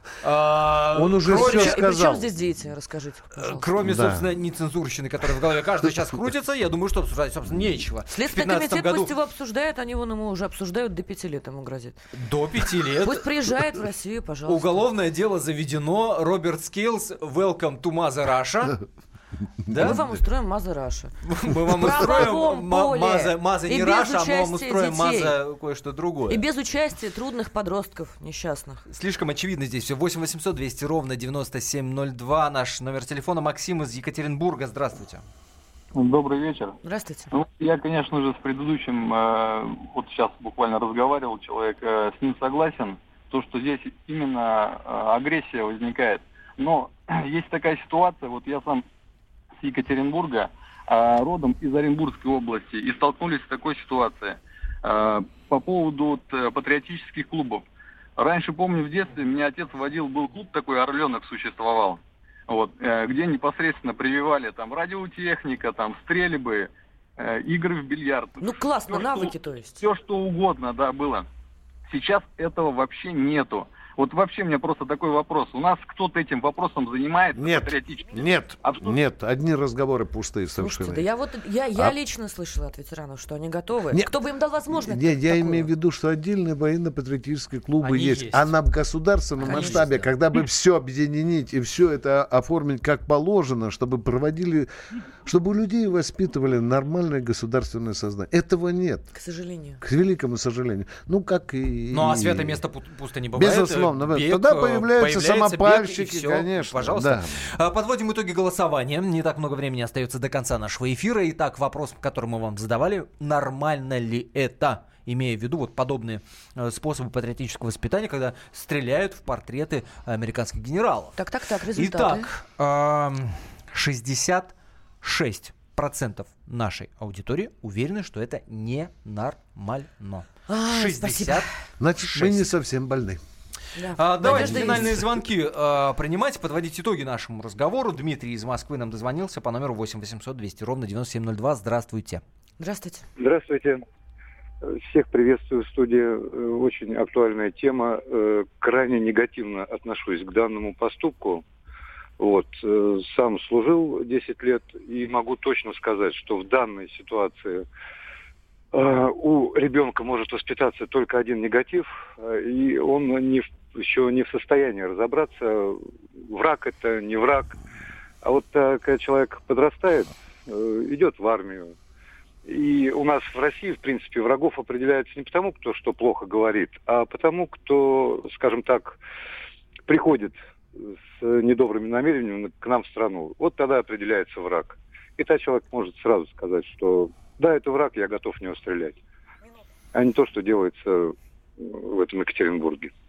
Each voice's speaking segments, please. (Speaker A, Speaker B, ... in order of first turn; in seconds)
Speaker A: 0.2-1.9, 3.4-9.1, 12.1-13.3, 14.5-18.8, 19.7-20.0, 21.3-26.4, 28.9-35.2, 87.8-88.5, 89.4-90.1, 101.9-121.2, 121.8-131.5, 132.0-132.5, 134.0-142.2
Speaker B: 0.9-2.3, 3.8-4.3, 19.8-20.1, 77.3-81.1, 84.7-94.7, 95.2-99.1, 99.8-102.6, 103.3-107.5, 131.8-133.2, 134.2-135.2
Speaker C: 1.3-3.7, 8.1-12.0, 13.0-14.8, 19.7-25.4, 26.3-28.9, 36.8-37.3, 68.4-69.8, 80.6-85.7, 89.4-89.8, 99.1-99.8, 121.2-122.3, 130.5-131.5, 133.8-135.0, 142.6-143.1
Speaker D: 35.9-36.8, 37.3-48.9, 49.6-57.6, 58.2-71.3, 71.9-79.0
Speaker E: 143.2-143.8, 144.6-151.4, 152.2-157.7, 158.7-167.6, 168.2-171.7, 172.5-179.0, 179.9-189.0, 189.9-192.9